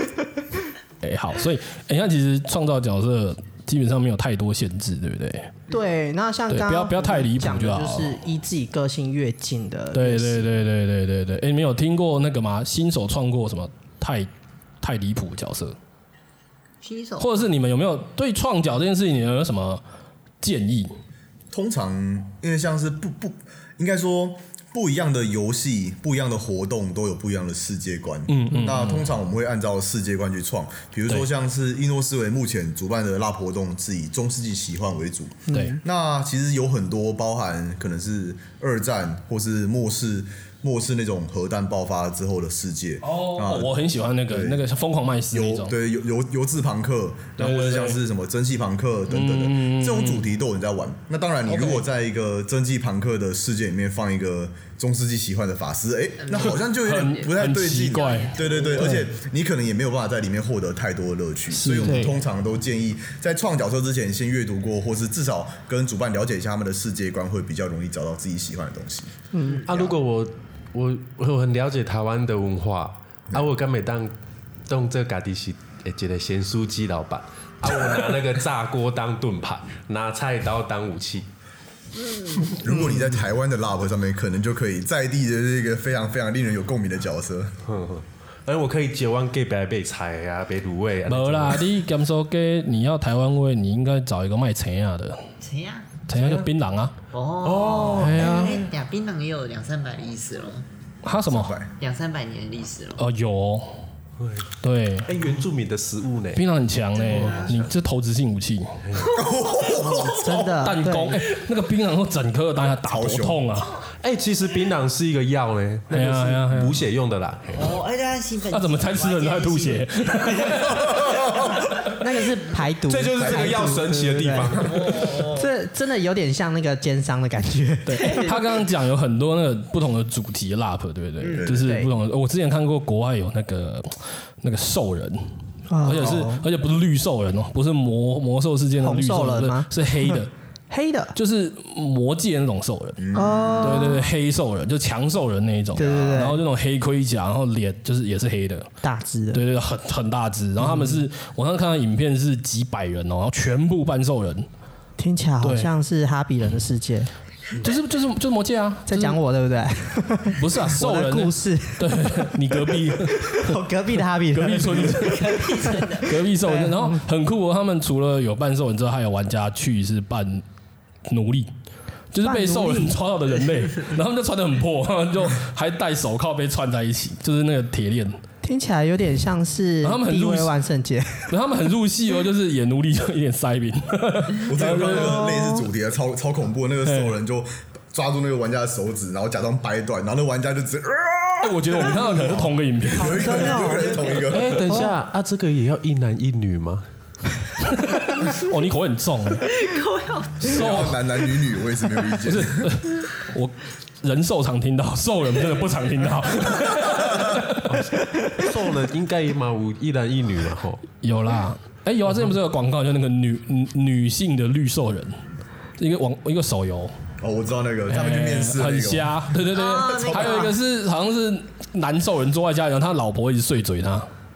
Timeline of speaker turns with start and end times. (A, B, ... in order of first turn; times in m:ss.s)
0:01.0-0:05.5 A
0:05.7-0:10.5 B
0:06.5-0:08.2 A
0:09.9-0:14.3 A
0:14.8-0:15.8 A
0:16.8-0:17.5 C
0:17.2-0:19.8 A
0:20.4-0:20.9 A
0:21.5-0:43.7 D
0:28.3-0:29.1 A
0:35.5-0:35.8 B
0:35.5-0:35.8 A
0:43.0-0:45.7 A
0:44.3-0:44.6 D
0:45.3-1:09.1 D
0:47.4-0:48.0 A
0:49.1-0:50.3 A
0:51.5-0:51.8 A
0:56.2-0:57.1 C
0:56.4-0:59.1 A
0:57.9-0:58.9 C
1:01.5-1:02.2 A
1:01.9-1:02.1 B
1:09.3-1:09.7 B
1:09.4-1:09.7 C
1:09.7-1:14.2 E
1:14.7-1:21.3 E
1:22.0-1:22.5 C
1:22.5-1:27.6 D
1:27.6-1:31.7 E
1:31.1-1:35.2 A
1:35.4-1:35.9 C
1:36.1-1:36.9 A
1:36.1-1:36.5 E
1:37.1-1:40.7 C
1:37.4-1:38.7 E
1:37.9-1:38.6 A
1:41.0-1:41.5 A
1:41.3-1:41.7 D
1:41.8-1:43.0 C
1:43.0-1:43.8 A
1:44.2-1:44.5 E
1:44.6-1:45.1 A
1:45.1-1:46.4 E
1:46.4-1:48.8 A
1:47.0-1:47.7 E
1:47.1-1:47.5 C
1:48.8-1:49.2 E
1:49.1-1:50.6 D
1:49.6-1:50.1 C
1:49.8-1:51.2 B
1:50.6-1:53.8 A
1:52.8-1:53.4 D
1:54.0-1:57.6 E
1:55.9-1:56.8 A
1:57.6-2:01.7 C
1:58.5-2:01.0 A
2:00.9-2:01.5 D
2:02.0-2:08.4 B
2:02.9-2:05.0 E
2:03.2-2:03.7 D
2:04.6-2:05.5 C
2:07.9-2:15.2 A
2:08.0-2:08.5 C
2:11.3-2:11.8 D
2:11.6-2:11.9 B
2:15.7-2:16.4 B
2:15.8-2:20.3 A
2:18.8-2:21.1 B
2:21.1-2:28.7 A
2:23.0-2:23.6 D
2:23.1-2:24.1 B
2:23.2-2:23.8 C
2:25.8-2:26.4 B
2:25.8-2:26.3 D
2:28.8-2:29.4 B
2:29.3-2:34.5 A
2:30.6-2:31.0 B
2:35.0-2:37.1 B
2:35.4-2:35.7 A
2:37.6-2:39.2 A
2:38.9-2:47.0 B
2:40.3-2:43.6 A
2:44.3-2:50.4 A
2:45.0-2:46.1 C
2:51.1-2:51.5 A
2:52.1-2:58.2 A
2:52.2-2:53.0 B
2:58.4-3:01.3 B
2:59.8-3:00.5 A
3:01.3-3:05.3 A
3:04.4-3:14.6 D
3:04.8-3:05.6 B
3:06.8-3:07.2 A
3:11.4-3:13.4 A
3:13.0-3:14.1 B
3:14.2-3:16.8 E
3:14.7-3:15.0 B
3:17.7-3:19.5 A
3:19.5-3:20.5 C
3:20.4-3:21.0 A
3:20.4-3:22.8 D
3:22.2-3:27.7 A
3:27.7-3:30.8 E
3:31.0-3:35.2 A
3:35.8-3:36.9 A
3:37.2-3:39.2 D
3:37.9-3:44.1 A
3:39.5-3:40.5 C
3:39.9-3:40.4 D